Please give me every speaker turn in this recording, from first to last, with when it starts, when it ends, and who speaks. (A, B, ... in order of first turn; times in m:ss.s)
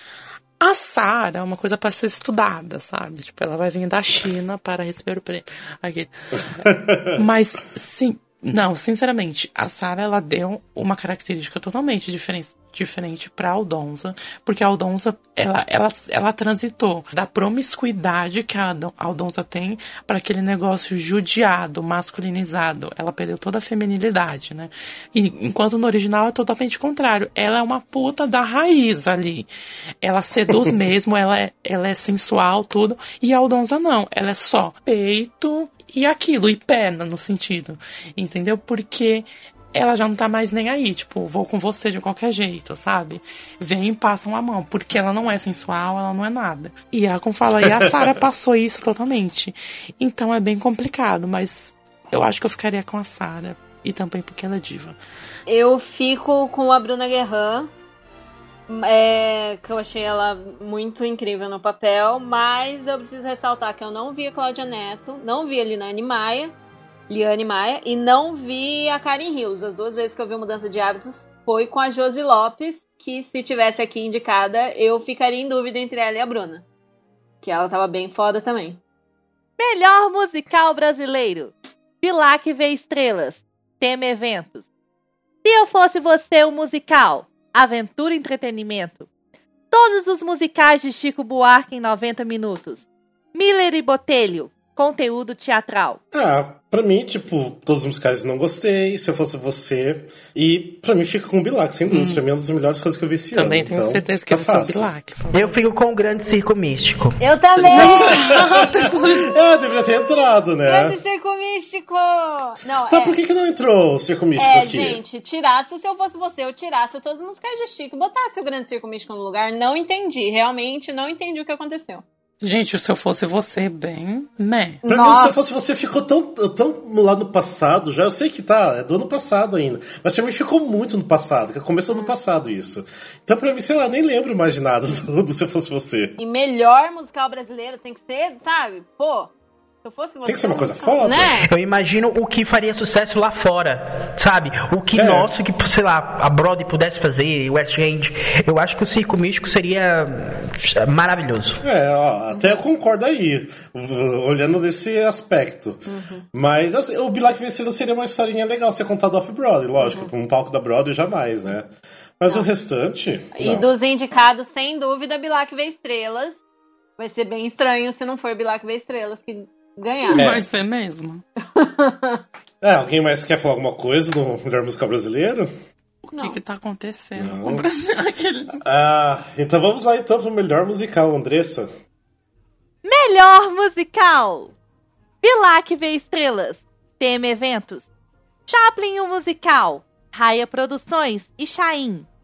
0:00.6-0:29.5 A
0:06.5-0:07.2 B
0:30.0-0:55.0 A
0:47.6-0:48.2 B
0:55.5-0:57.7 C
0:58.7-1:06.5 C
1:07.1-1:16.6 C
1:17.4-1:18.8 C
1:19.6-1:24.6 D
1:25.4-1:29.1 D
1:29.7-1:32.8 D
1:33.3-1:36.0 D
1:36.1-1:44.9 B
1:41.9-1:42.2 A
1:43.3-1:45.5 A
1:45.3-1:47.2 E
1:47.2-1:48.5 C
1:47.6-1:51.0 B
1:47.7-1:49.3 A
1:49.7-1:53.2 C
1:52.9-1:55.0 B
1:54.4-2:02.0 C
2:02.4-2:04.8 A
2:04.8-2:05.6 C
2:04.9-2:16.2 B
2:16.2-2:21.4 C
2:20.2-2:21.4 B
2:21.5-2:31.6 E
2:24.9-2:25.3 B
2:31.6-2:43.7 B
2:35.9-2:36.2 C
2:39.8-2:40.1 C
2:43.3-2:46.4 C
2:47.0-2:50.2 C
2:50.1-2:51.2 A
2:50.2-2:50.4 B
2:51.6-2:52.2 C
2:52.6-2:55.5 B
2:56.0-2:58.6 A
2:57.2-2:57.6 B
2:58.6-3:01.7 B
3:02.8-3:04.5 D
3:05.2-3:07.9 D
3:08.5-3:12.1 D